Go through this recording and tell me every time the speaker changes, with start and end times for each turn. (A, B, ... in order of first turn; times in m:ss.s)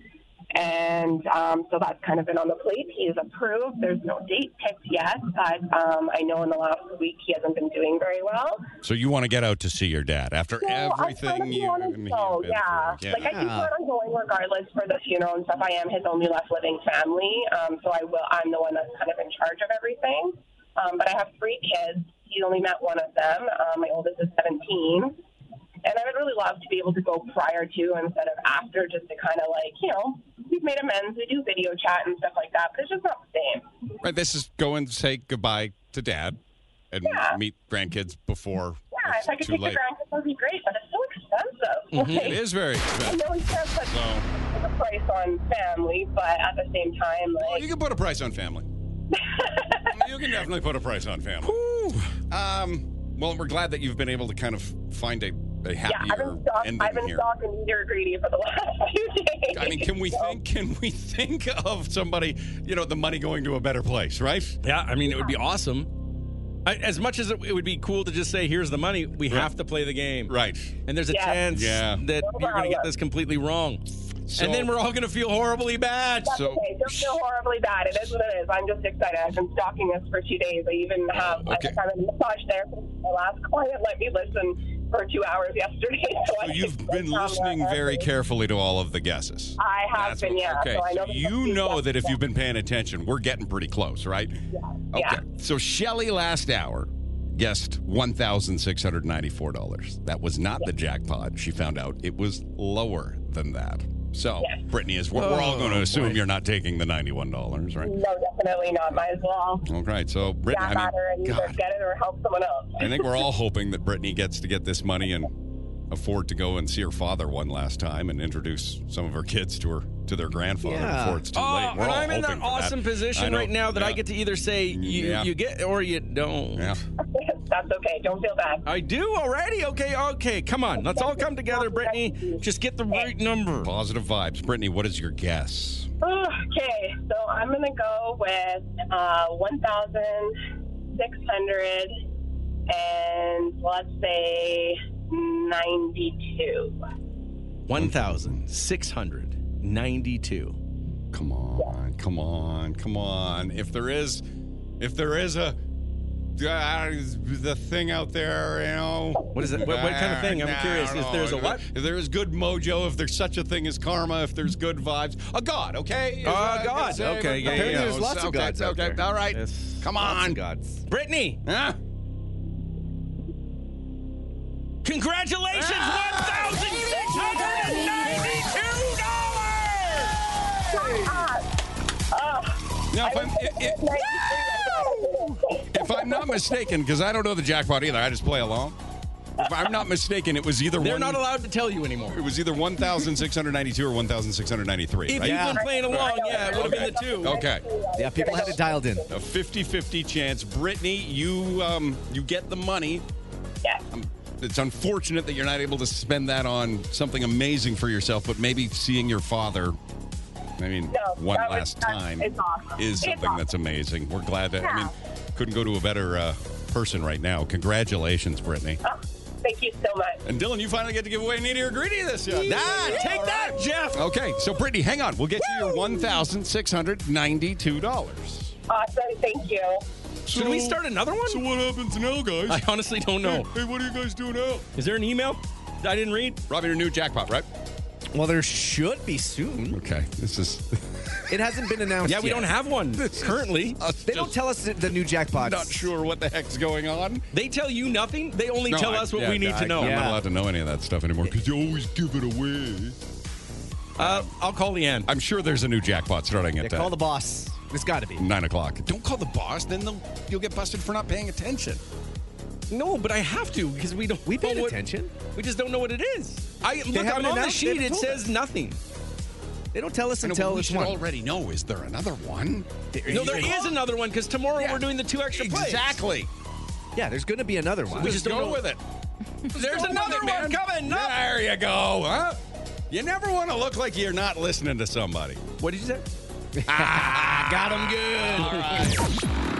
0:00.5-0:08.6 A
0:08.8-0:13.3 B
0:10.6-0:25.2 A
0:13.2-0:13.7 C
0:25.8-0:33.7 A
0:34.0-0:36.4 B
0:36.9-0:39.8 B
0:37.0-0:37.4 A
0:38.9-0:42.4 A
0:41.9-0:42.4 D
0:42.0-0:43.3 B
0:43.0-0:47.7 A
0:43.9-0:44.3 B
0:47.4-0:48.7 B
0:49.2-0:50.1 A
0:49.9-0:51.6 B
0:51.4-0:52.1 D
0:52.3-0:57.2 B
0:55.9-1:00.4 A
0:59.5-1:04.6 B
1:04.6-1:05.9 D
1:06.6-1:10.3 D
1:10.3-1:10.8 B
1:10.9-1:16.4 D
1:11.1-1:11.5 A
1:11.5-1:12.0 B
1:12.1-1:12.9 A
1:14.3-1:14.7 B
1:16.3-1:28.1 A
1:16.3-1:17.1 B
1:21.2-1:21.8 B
1:26.4-1:34.3 B
1:29.6-1:32.2 A
1:34.5-1:35.2 A
1:34.9-1:47.9 B
1:45.2-1:46.2 D
1:47.8-1:49.7 A
1:49.7-1:51.6 B
1:50.5-1:53.2 A
1:52.8-1:55.4 B
1:55.9-2:04.0 B
2:00.6-2:01.3 C
2:01.3-2:06.7 D
2:04.7-2:05.3 B
2:07.0-2:08.7 A
2:08.6-2:13.7 D
2:10.8-2:13.1 A
2:13.6-2:15.9 B
2:16.0-2:20.4 A
2:20.9-2:22.0 A
2:22.7-2:26.8 A
2:27.7-2:30.6 D
2:27.7-2:28.4 B
2:31.1-2:34.2 B
2:34.8-2:35.6 B
2:36.4-2:50.4 B
2:39.3-2:41.6 D
2:46.2-2:47.9 D
2:47.0-2:49.0 C
2:49.3-2:49.8 D
2:50.0-2:50.8 C
2:50.9-2:51.4 D
2:51.4-2:51.8 B
2:54.8-3:00.1 D
2:55.6-2:58.6 B
2:57.0-2:58.0 A
3:00.7-3:01.4 A
3:00.7-3:01.2 B
3:02.1-3:06.5 A
3:02.9-3:08.8 B
3:09.4-3:11.2 B
3:10.8-3:12.2 D
3:12.1-3:17.6 B
3:15.1-3:17.4 D
3:15.2-3:15.6 C
3:15.6-3:19.1 A
3:18.0-3:19.1 C
3:19.1-3:23.0 B
3:23.9-3:29.8 B
3:30.6-3:38.8 B
3:30.9-3:33.4 A
3:34.6-3:34.9 A
3:38.8-3:40.2 A
3:40.2-3:48.6 B
3:42.3-3:44.0 D
3:45.4-3:46.2 A
3:48.7-3:49.8 A
3:50.3-3:52.6 B
3:50.3-3:51.4 D
3:52.5-3:53.5 D
3:53.2-3:54.7 B
3:54.8-3:56.4 D
3:56.5-3:57.4 B
3:58.1-3:59.8 C
3:59.7-4:01.2 B
4:01.3-4:02.5 C
4:02.0-4:03.8 D
4:03.1-4:04.4 B
4:04.0-4:05.9 C
4:05.3-4:07.2 B
4:07.3-4:10.0 D
4:08.7-4:13.0 B
4:09.8-4:10.2 C
4:14.0-4:15.1 D
4:14.0-4:14.3 B
4:15.1-4:16.9 B
4:16.6-4:18.3 C
4:18.2-4:21.8 B
4:22.7-4:28.8 D
4:24.3-4:25.1 C
4:26.9-4:28.3 C
4:29.7-4:31.0 C
4:30.2-4:32.7 B
4:32.9-4:33.8 C
4:33.1-4:36.0 D
4:33.2-4:33.5 B
4:34.6-4:36.3 B
4:37.0-4:38.3 C
4:37.9-4:38.8 B
4:38.0-4:38.6 D
4:39.5-4:41.2 D
4:39.5-4:45.4 B
4:45.6-4:46.0 D
4:46.6-4:48.9 C
4:46.7-4:49.1 B